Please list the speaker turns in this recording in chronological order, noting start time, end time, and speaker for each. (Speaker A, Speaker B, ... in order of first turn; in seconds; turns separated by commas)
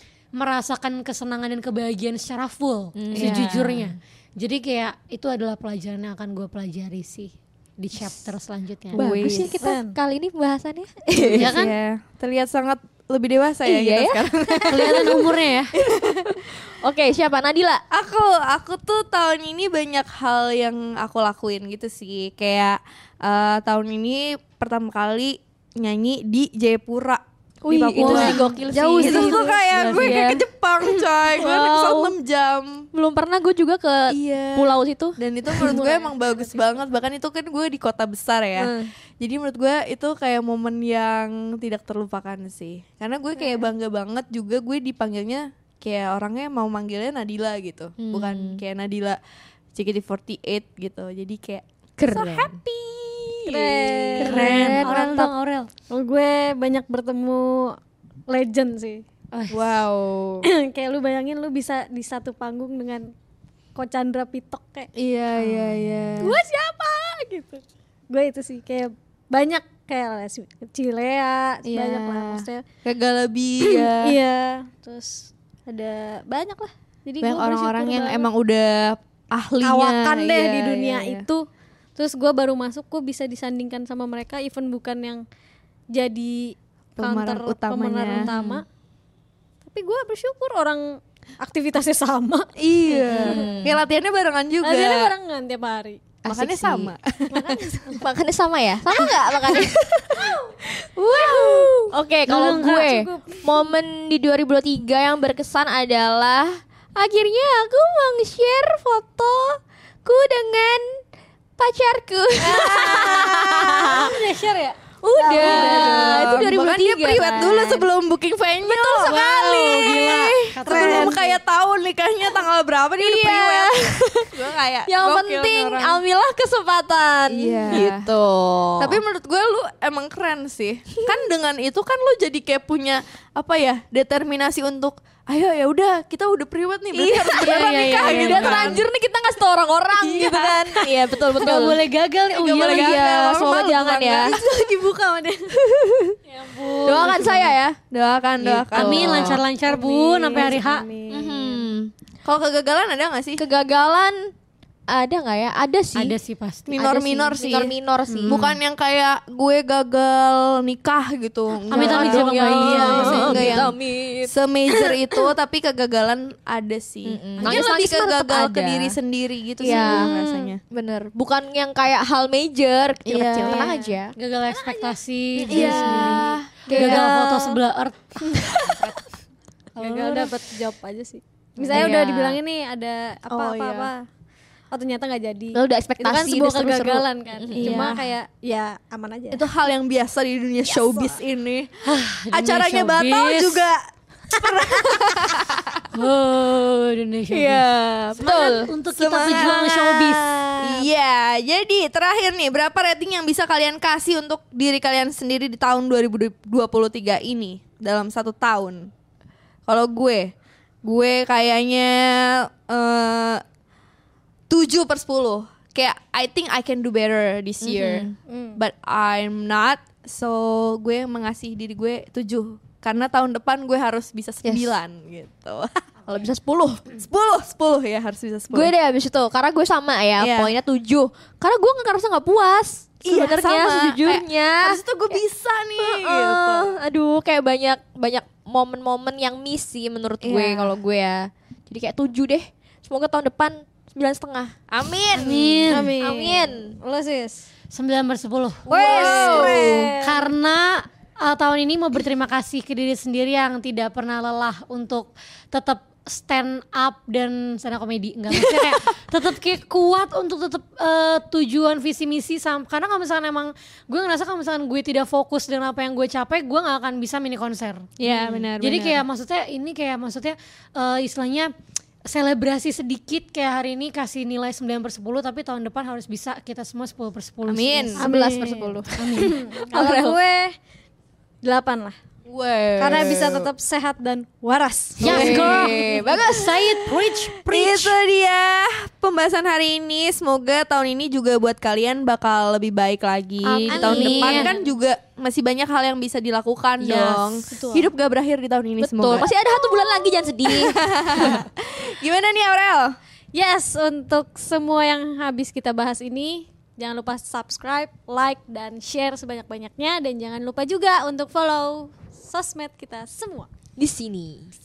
Speaker A: 0.3-9.1, Speaker B: 3.0-4.0, Speaker C: 3.1-3.5, Speaker C: 8.9-9.6, Speaker B: 8.9-11.6, Speaker D: 9.6-9.9, Speaker C: 11.3-16.4, Speaker A: 11.3-11.8, Speaker B: 13.6-15.1, Speaker A: 14.7-15.7, Speaker B: 16.7-17.8, Speaker C: 17.9-32.9, Speaker B: 27.6-30.4, Speaker A: 28.0-28.5, Speaker D: 28.0-30.1, Speaker A: 29.7-30.2, Speaker B: 31.3-32.1, Speaker B: 32.9-35.8, Speaker C: 34.1-49.2, Speaker D: 35.5-36.8, Speaker B: 38.6-38.9, Speaker D: 43.4-43.6, Speaker B: 48.0-48.6, Speaker C: 49.7-54.8, Speaker B: 52.0-52.5, Speaker D: 53.5-55.3, Speaker B: 54.1-55.1, Speaker A: 54.2-55.7, Speaker D: 55.9-57.8, Speaker D: 58.3-59.0, Speaker A: 59.3-59.8, Speaker C: 59.5-60.5, Speaker D: 60.4-63.1, Speaker D: 63.7-64.9, Speaker C: 64.9-66.3, Speaker B: 65.3-66.2, Speaker D: 66.2-72.6, Speaker C: 71.7-74.2, Speaker D: 73.6-78.3, Speaker C: 77.2-81.3, Speaker D: 79.6-81.4, Speaker D: 81.9-85.2, Speaker D: 85.9-88.6, Speaker C: 87.0-88.3, Speaker B: 88.2-88.6, Speaker D: 89.6-90.9, Speaker D: 91.4-93.6, Speaker C: 92.6-95.1, Speaker B: 93.0-93.8, Speaker D: 94.6-96.2, Speaker B: 96.2-96.9, Speaker C: 96.3-97.9, Speaker D: 97.3-98.0, Speaker B: 98.0-100.4, Speaker C: 101.0-101.8, Speaker B: 101.1-111.0, Speaker D: 101.1-103.7, Speaker A: 102.2-102.9, Speaker B: 111.6-114.0, Speaker A: 112.5-113.2, Speaker C: 112.5-114.1, Speaker A: 113.8-114.8, Speaker B: 115.0-117.9, Speaker C: 115.2-126.0, Speaker A: 115.3-116.5, Speaker B: 118.6-121.2, Speaker A: 119.0-121.2, Speaker D: 120.7-121.0, Speaker B: 123.0-124.3, Speaker B: 124.9-129.0, Speaker C: 127.3-128.1, Speaker C: 128.8-138.8, Speaker B: 136.9-141.8, Speaker A: 137.3-138.8, Speaker C: 140.0-141.7, Speaker A: 141.4-143.0, Speaker C: 142.3-144.8, Speaker B: 142.6-144.3, Speaker D: 144.2-145.5, Speaker A: 146.3-147.3, Speaker D: 146.4-146.7, Speaker C: 146.6-149.4, Speaker B: 146.8-147.7, Speaker B: 148.4-149.4, Speaker A: 148.7-150.8, Speaker D: 149.7-151.3, Speaker B: 151.1-151.9, Speaker C: 152.2-153.4, Speaker B: 153.4-154.3, Speaker B: 154.9-156.1, Speaker A: 155.9-156.7, Speaker C: 156.7-170.6, Speaker B: 156.7-158.6, Speaker B: 161.7-164.3, Speaker A: 161.7-163.7, Speaker D: 162.9-163.3, Speaker B: 167.0-168.9, Speaker D: 167.4-167.7, Speaker B: 169.6-174.1, Speaker D: 169.7-170.1, Speaker C: 173.1-173.8, Speaker D: 173.4-173.7, Speaker A: 174.2-178.5, Speaker D: 174.5-176.2, Speaker B: 175.5-177.1, Speaker C: 175.5-177.1, Speaker D: 176.8-177.0, Speaker D: 178.2-178.7, Speaker C: 178.6-178.9, Speaker A: 179.8-180.3, Speaker D: 179.8-184.0, Speaker C: 181.6-181.9, Speaker A: 181.7-182.4, Speaker C: 183.3-183.9, Speaker D: 184.7-189.4, Speaker B: 185.5-188.0, Speaker C: 187.6-188.1, Speaker C: 189.3-191.7, Speaker D: 190.6-191.2, Speaker A: 191.8-193.7, Speaker C: 192.3-195.8, Speaker A: 195.9-200.2, Speaker B: 197.3-198.7, Speaker C: 198.2-199.7, Speaker D: 199.2-200.9, Speaker C: 200.6-208.9, Speaker C: 209.7-210.3, Speaker C: 210.8-213.4, Speaker C: 214.5-225.8, Speaker B: 217.6-218.2, Speaker D: 218.2-218.6, Speaker B: 224.4-224.7, Speaker B: 226.1-226.8, Speaker C: 227.0-228.7, Speaker B: 228.5-235.2, Speaker C: 230.2-230.5, Speaker C: 233.0-236.7, Speaker B: 235.8-244.6, Speaker C: 240.2-240.8, Speaker C: 244.7-245.8, Speaker A: 245.2-245.9, Speaker D: 245.7-247.5, Speaker B: 245.7-246.8, Speaker A: 247.7-248.7, Speaker C: 248.7-249.9, Speaker B: 248.7-249.9, Speaker D: 248.7-250.3, Speaker A: 249.3-267.9, Speaker C: 268.0-269.0, Speaker B: 268.0-268.5, Speaker A: 268.6-271.5, Speaker A: 272.1-278.0, Speaker C: 277.5-278.0, Speaker B: 278.0-280.2, Speaker D: 278.0-280.5, Speaker D: 281.4-282.0, Speaker C: 282.2-283.5, Speaker D: 282.8-285.6, Speaker A: 285.0-288.0, Speaker B: 285.0-286.3, Speaker C: 285.0-299.3, Speaker B: 293.4-294.5, Speaker D: 293.7-294.6, Speaker A: 293.8-294.5, Speaker B: 296.8-297.3, Speaker D: 297.0-297.9, Speaker B: 298.8-301.4, Speaker C: 300.5-302.9, Speaker D: 303.3-313.5, Speaker B: 313.8-314.5